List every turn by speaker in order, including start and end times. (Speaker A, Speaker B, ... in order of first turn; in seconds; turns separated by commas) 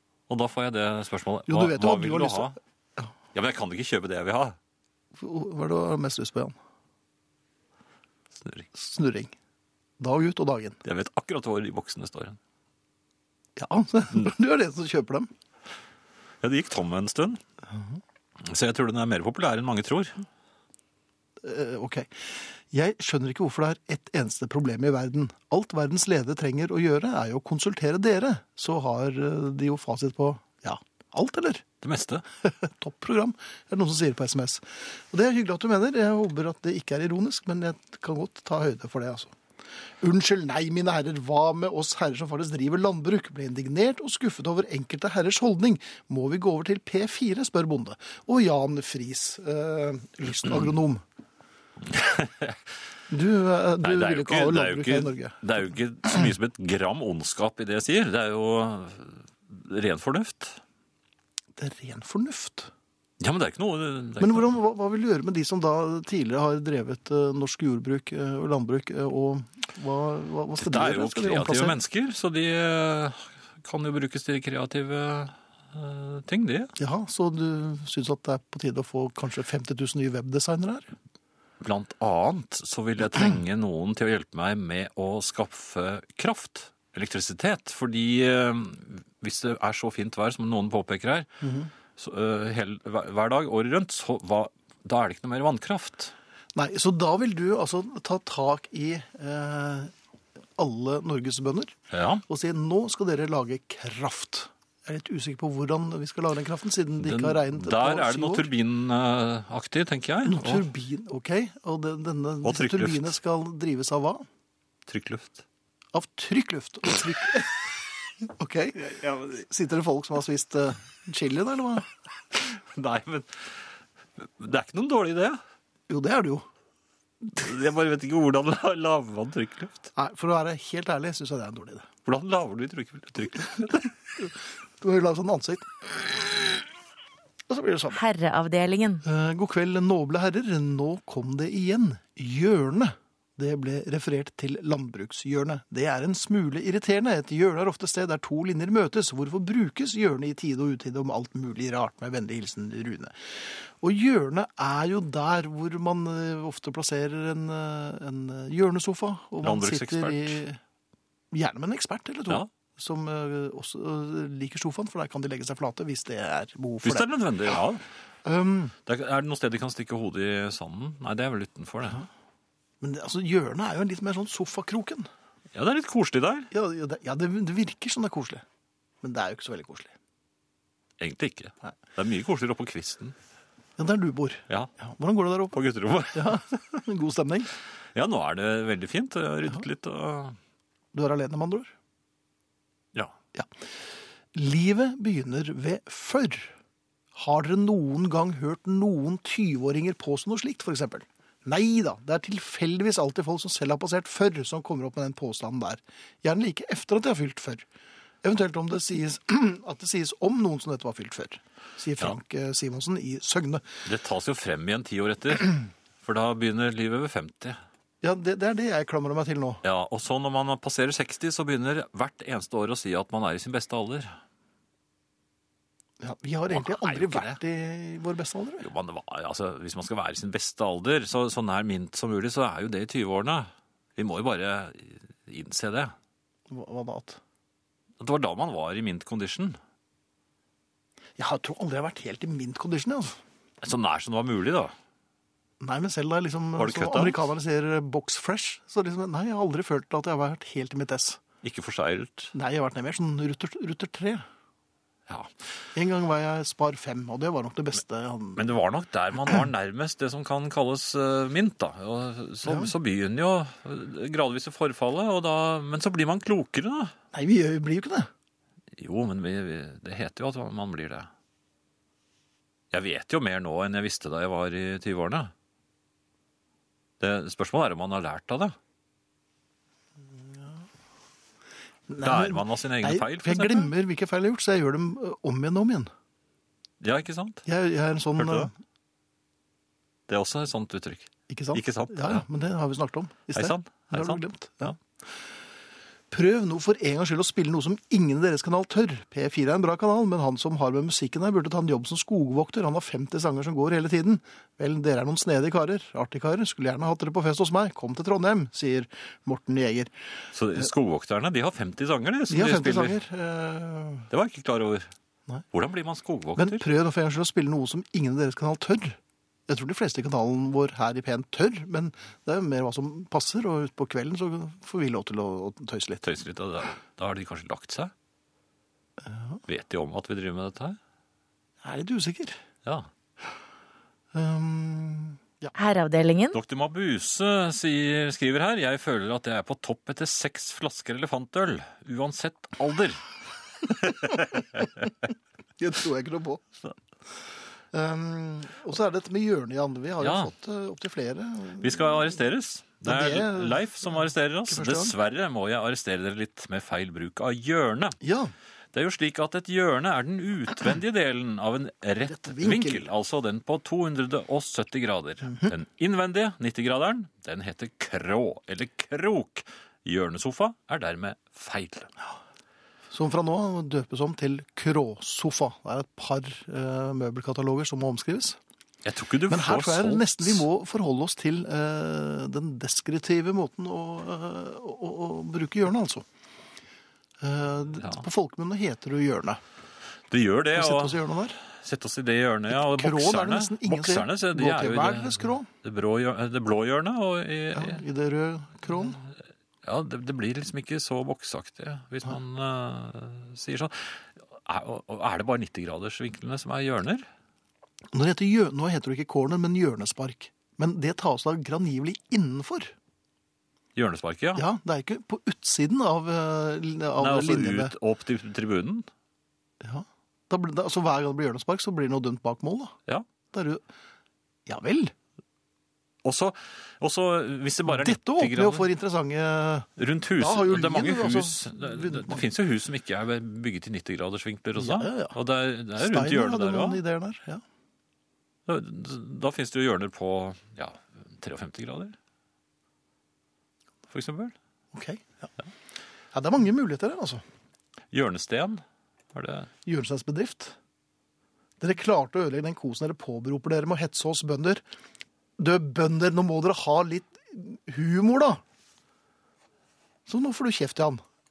Speaker A: 0.3-2.6, Speaker B: 1.5-3.1, Speaker A: 3.3-4.6, Speaker B: 5.2-6.6, Speaker A: 8.4-8.7, Speaker B: 8.7-9.3, Speaker B: 10.0-10.8, Speaker A: 10.8-12.4, Speaker B: 13.6-15.3, Speaker A: 16.4-17.4, Speaker A: 18.4-20.2, Speaker B: 21.4-31.6, Speaker A: 31.8-32.2, Speaker B: 32.4-39.3, Speaker B: 40.0-51.0, Speaker A: 51.9-52.6, Speaker B: 53.1-55.4, Speaker A: 53.8-60.6, Speaker B: 61.6-62.7, Speaker A: 63.2-64.5, Speaker B: 64.2-71.8, Speaker A: 70.6-76.7, Speaker B: 76.8-80.9, Speaker A: 81.6-91.3, Speaker B: 91.4-91.7, Speaker A: 91.9-96.1, Speaker B: 96.5-99.9, Speaker B: 100.6-108.5, Speaker A: 101.9-102.2, Speaker A: 107.0-110.7, Speaker B: 110.2-114.2, Speaker A: 112.4-113.1, Speaker A: 114.9-115.4, Speaker B: 115.9-121.9, Speaker A: 118.9-119.5, Speaker A: 122.3-123.6, Speaker A: 124.2-125.4, Speaker B: 125.9-126.5, Speaker A: 127.3-129.9, Speaker B: 129.9-131.9, Speaker A: 132.1-133.9, Speaker B: 134.2-136.6, Speaker B: 137.5-138.0, Speaker C: 137.9-139.1, Speaker B: 139.0-160.6, Speaker A: 159.4-160.4, Speaker B: 161.3-167.1, Speaker A: 166.8-167.8, Speaker B: 168.2-168.8, Speaker A: 168.9-172.1, Speaker B: 172.8-175.1, Speaker A: 175.5-176.5, Speaker B: 176.5-178.4, Speaker B: 179.0-179.9, Speaker A: 181.0-183.2, Speaker B: 183.8-185.6, Speaker A: 185.5-186.6, Speaker B: 186.1-187.5, Speaker A: 187.9-190.4, Speaker B: 190.9-191.7, Speaker B: 194.3-196.5, Speaker B: 197.1-207.7, Speaker B: 208.2-213.7, Speaker A: 213.8-217.6, Speaker B: 218.0-219.6, Speaker A: 219.6-224.2, Speaker B: 226.0-228.7, Speaker A: 226.5-227.4, Speaker A: 228.6-235.9, Speaker B: 236.5-237.2, Speaker A: 238.0-239.6, Speaker B: 241.2-243.2, Speaker A: 243.6-244.7, Speaker B: 245.6-251.2, Speaker A: 246.6-247.2, Speaker A: 251.4-252.3, Speaker B: 252.3-254.3, Speaker B: 255.8-258.5, Speaker A: 258.4-266.9, Speaker B: 262.4-262.7, Speaker B: 267.1-268.1, Speaker A: 268.8-271.1, Speaker A: 272.7-275.3, Speaker A: 277.0-278.6, Speaker B: 281.9-285.9, Speaker A: 282.0-283.7, Speaker A: 286.8-287.4, Speaker B: 287.5-288.5, Speaker A: 288.2-288.5, Speaker A: 290.1-292.2, Speaker B: 291.3-294.8, Speaker A: 293.3-294.8, Speaker B: 296.1-309.9, Speaker A: 310.3-313.0, Speaker B: 312.3-314.1, Speaker A: 314.1-314.9, Speaker A: 315.5-316.7, Speaker B: 316.4-326.0, Speaker A: 326.0-327.9, Speaker B: 329.0-329.4, Speaker A: 329.5-330.8, Speaker B: 331.6-332.4, Speaker B: 334.1-335.5, Speaker C: 335.6-336.4, Speaker A: 336.3-343.1, Speaker A: 343.6-344.9, Speaker B: 345.6-346.5, Speaker B: 347.7-352.2, Speaker A: 350.0-350.3, Speaker A: 351.6-358.0, Speaker B: 352.8-355.0, Speaker B: 358.0-358.3, Speaker A: 358.7-371.9, Speaker B: 362.1-362.9, Speaker B: 372.9-378.4, Speaker A: 378.9-380.4, Speaker B: 379.3-386.1, Speaker B: 387.2-389.4, Speaker A: 390.1-397.8, Speaker B: 390.5-391.4, Speaker B: 392.5-395.5, Speaker B: 397.5-399.0, Speaker A: 398.8-399.1, Speaker A: 399.6-407.1, Speaker B: 407.9-412.7, Speaker A: 413.8-414.5, Speaker B: 414.4-417.7, Speaker A: 417.0-418.9, Speaker B: 419.6-422.8, Speaker B: 423.3-423.6, Speaker B: 424.5-424.9, Speaker A: 426.0-428.7, Speaker B: 427.7-432.2, Speaker A: 429.8-436.8, Speaker B: 434.6-435.1, Speaker B: 435.8-437.4, Speaker A: 438.5-442.0, Speaker A: 443.9-444.4, Speaker B: 444.7-445.3, Speaker B: 446.1-447.2, Speaker A: 447.9-449.5, Speaker B: 449.7-450.6, Speaker B: 451.6-454.6, Speaker B: 455.4-458.4, Speaker B: 460.1-461.0